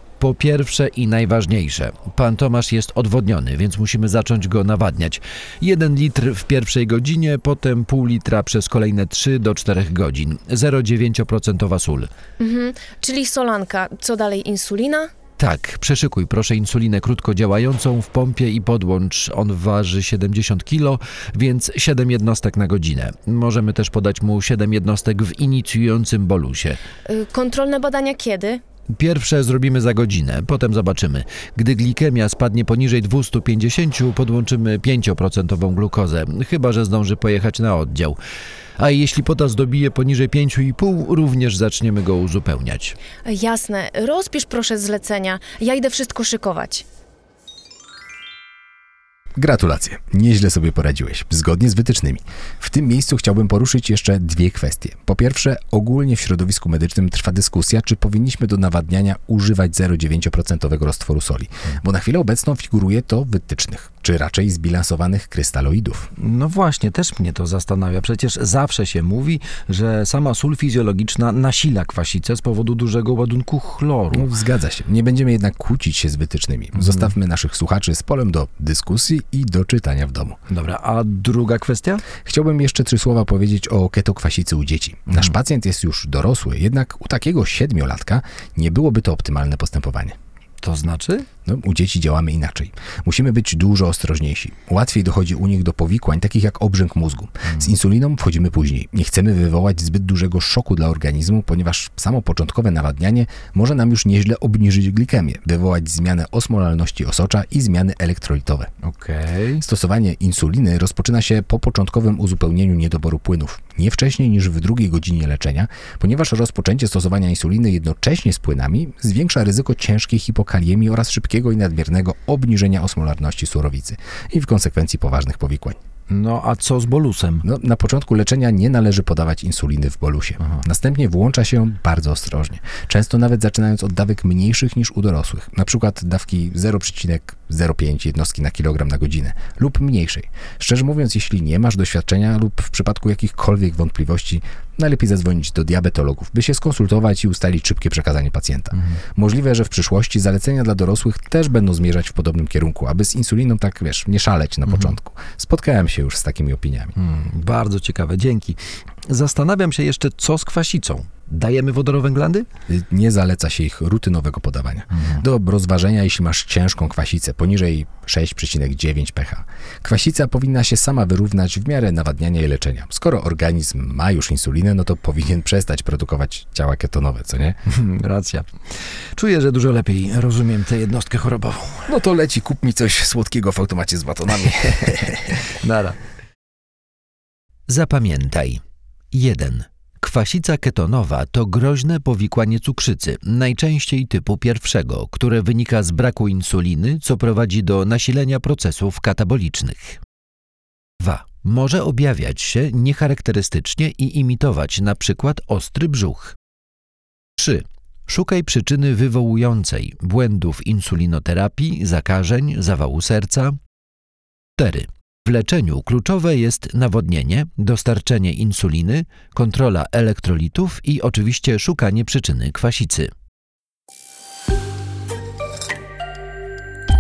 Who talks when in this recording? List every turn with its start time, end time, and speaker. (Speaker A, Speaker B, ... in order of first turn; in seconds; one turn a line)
Speaker A: 0.2-12.1
Speaker B: 12.4-15.1
Speaker A: 15.4-26.8
Speaker B: 27.1-28.6
Speaker A: 28.9-38.2
Speaker A: 38.8-43.0
Speaker B: 43.2-46.8
Speaker C: 49.4-66.1
Speaker A: 66.2-74.3
Speaker C: 74.1-80.4
Speaker A: 80.5-82.0
Speaker C: 82.2-90.1
Speaker A: 90.6-91.2
Speaker C: 91.5-108.7
Speaker A: 108.8-109.6
Speaker C: 109.6-125.8
Speaker A: 126.1-127.5
Speaker C: 127.4-156.9
Speaker A: 154.7-154.9
Speaker A: 157.0-162.5
Speaker C: 162.7-177.6
Speaker A: 164.9-165.2
Speaker A: 177.7-178.5
Speaker A: 179.1-181.9
Speaker C: 181.9-185.4
Speaker A: 185.5-186.0
Speaker A: 187.7-188.6
Speaker A: 189.1-200.0
Speaker A: 201.0-206.4
Speaker A: 207.4-213.6
Speaker A: 214.6-223.1